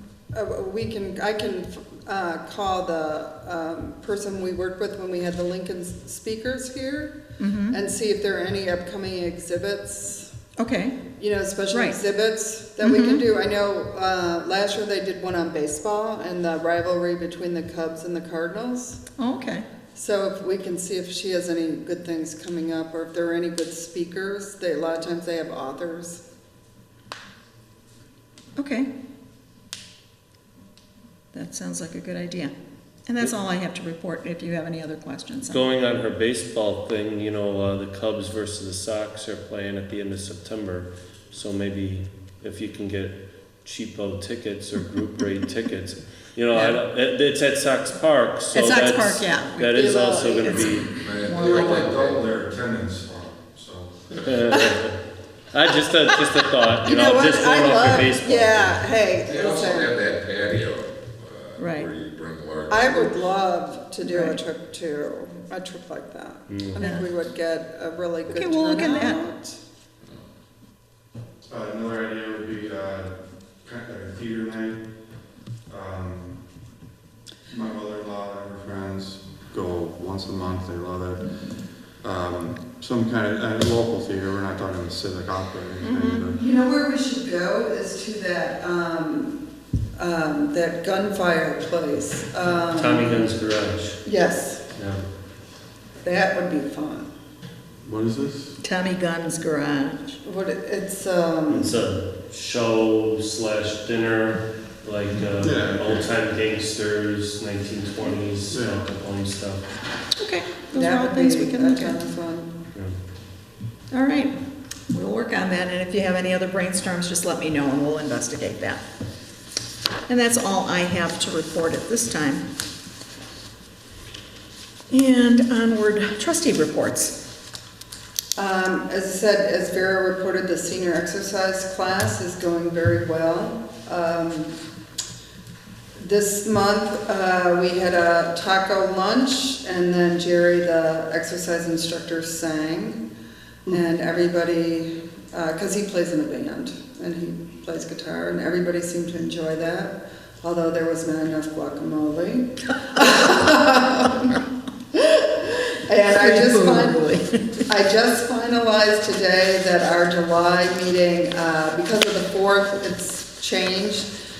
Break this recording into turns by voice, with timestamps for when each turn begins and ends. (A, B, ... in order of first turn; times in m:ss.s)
0:00.3-0:10.3 A
0:07.4-0:07.8 B
0:10.6-0:11.1 B
0:11.2-0:19.0 A
0:12.8-0:13.2 B
0:19.2-0:19.7 B
0:19.9-0:26.2 A
0:28.6-0:28.9 B
0:31.3-0:32.5 B
0:33.1-0:35.6 B
0:35.5-0:50.9 C
0:48.5-0:49.7 B
0:49.7-0:50.9 A
0:50.9-0:53.7 D
0:50.9-0:51.7 B
0:51.3-0:54.7 E
0:54.1-0:55.0 C
0:55.5-0:58.8 C
0:56.8-1:00.0 A
0:59.2-1:03.0 D
1:01.6-1:01.9 B
1:02.7-1:09.6 A
1:04.0-1:04.4 B
1:06.5-1:06.8 C
1:08.3-1:09.2 B
1:11.5-1:14.8 E
1:15.7-1:16.4 E
1:17.5-1:21.3 E
1:22.0-1:26.4 E
1:25.8-1:29.4 A
1:30.0-1:33.3 A
1:32.7-1:34.0 C
1:34.0-1:34.6 A
1:34.8-1:35.0 C
1:36.0-1:37.1 A
1:37.8-1:38.6 E
1:38.6-1:40.2 B
1:40.2-1:41.8 A
1:41.5-1:49.6 C
1:45.4-1:46.1 E
1:48.5-1:48.8 E
1:50.2-1:52.0 B
1:50.7-1:52.7 A
1:53.9-1:54.4 B
1:54.9-1:58.8 B
2:00.1-2:02.5 B
2:04.9-2:07.2 B
2:08.4-2:14.6 A
2:16.0-2:23.1 A
2:23.7-2:37.1 A
2:36.1-2:37.6 B
2:37.7-2:44.1 A